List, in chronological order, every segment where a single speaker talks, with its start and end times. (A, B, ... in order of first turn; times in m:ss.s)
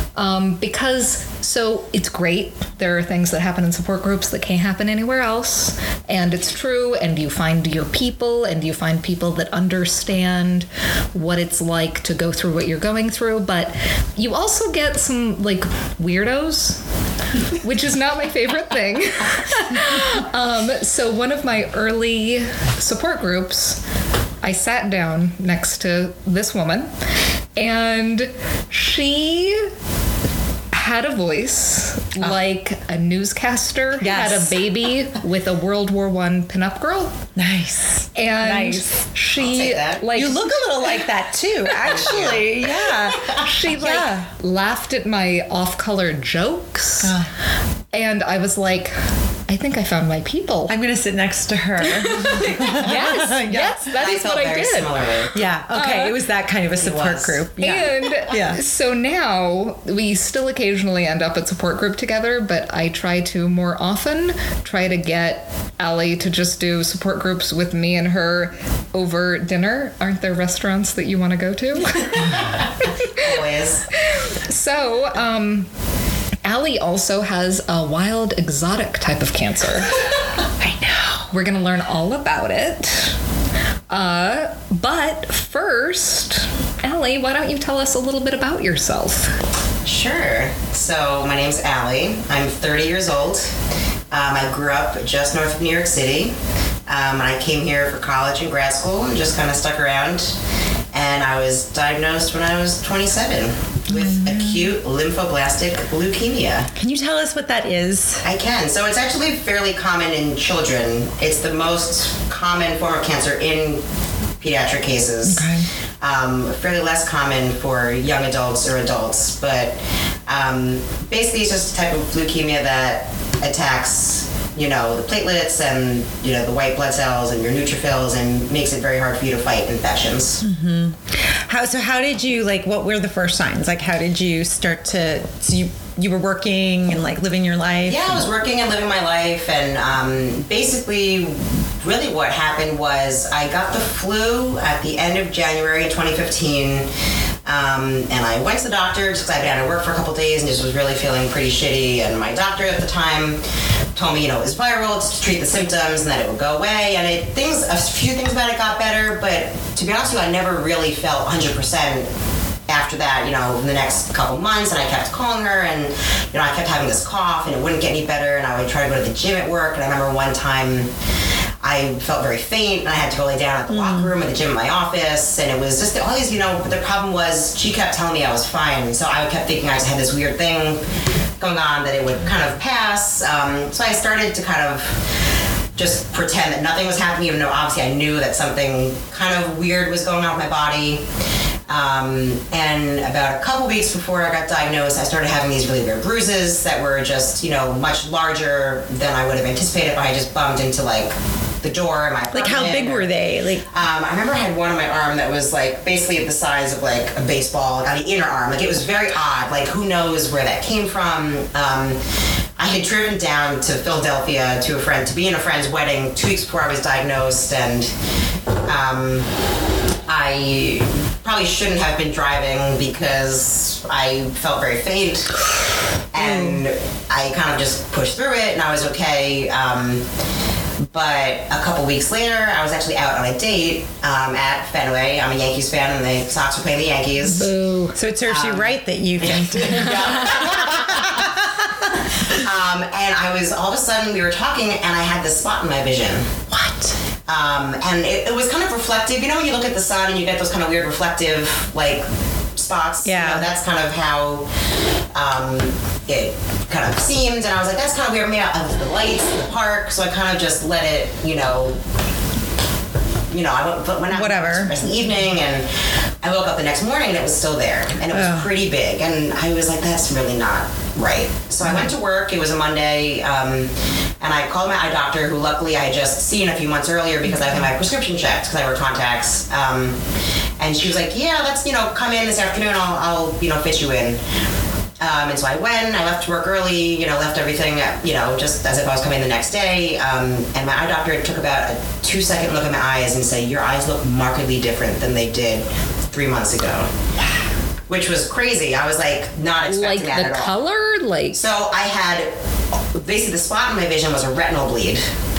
0:00.2-0:16.8 A
0:17.6-0:23.8 A
0:24.4-0:26.9 A
0:27.6-0:29.7 A
0:30.7-0:37.2 A
0:34.0-0:34.6 B
0:37.4-0:38.9 B
0:38.2-0:41.1 A
0:39.4-0:40.0 C
0:40.1-0:44.3 B
0:41.7-0:42.1 A
0:41.8-0:42.5 C
0:43.3-0:47.2 A
0:47.0-0:47.3 B
0:47.9-0:49.0 A
0:49.5-0:50.8 A
0:50.7-0:53.9 B
0:51.8-0:56.2 A
0:54.0-0:55.4 C
0:55.4-0:58.6 B
0:56.7-0:57.4 C
0:57.6-1:13.1 A
1:13.0-1:13.9 C
1:14.0-1:15.7 A
1:16.4-1:20.0 A
1:20.6-1:21.3 B
1:21.3-1:23.2 A
1:23.9-1:29.3 A
1:29.8-1:33.5 C
1:34.1-1:36.4 C
1:36.9-1:40.4 C
1:40.9-1:46.7 C
1:43.9-1:44.7 B
1:46.8-1:48.2 B
1:48.2-1:53.8 C
1:54.4-2:10.4 C
1:55.3-1:55.7 B
2:10.4-2:18.2 B
2:17.9-2:26.9 C
2:27.5-2:33.4 C
2:34.0-2:42.1 C
2:42.7-2:50.9 C
2:51.6-3:00.8 C
2:53.7-2:54.1 B
3:01.4-3:05.0 C
3:05.8-3:11.0 C
3:11.7-3:23.1 C
3:22.3-3:23.7 B
3:23.7-3:32.0 C
3:32.6-3:37.9 C
3:38.6-3:39.3 C
3:40.1-3:45.4 C
3:46.1-3:50.1 C
3:46.2-3:46.6 B
3:50.9-3:57.5 C
3:57.3-3:58.0 A
3:57.9-4:01.7 B
3:58.3-4:01.3 C
4:02.1-4:06.4 C
4:06.5-4:07.0 B
4:07.3-4:14.5 C
4:13.0-4:13.5 B
4:15.1-4:21.8 C
4:23.3-4:40.0 C
4:24.1-4:24.7 B
4:28.1-4:28.5 B
4:31.6-4:31.9 B
4:37.3-4:37.6 B
4:40.6-4:44.2 C
4:45.0-4:56.9 C
4:57.9-5:00.5 C
4:59.7-5:01.4 A
5:01.3-5:02.3 C
5:02.9-5:05.1 C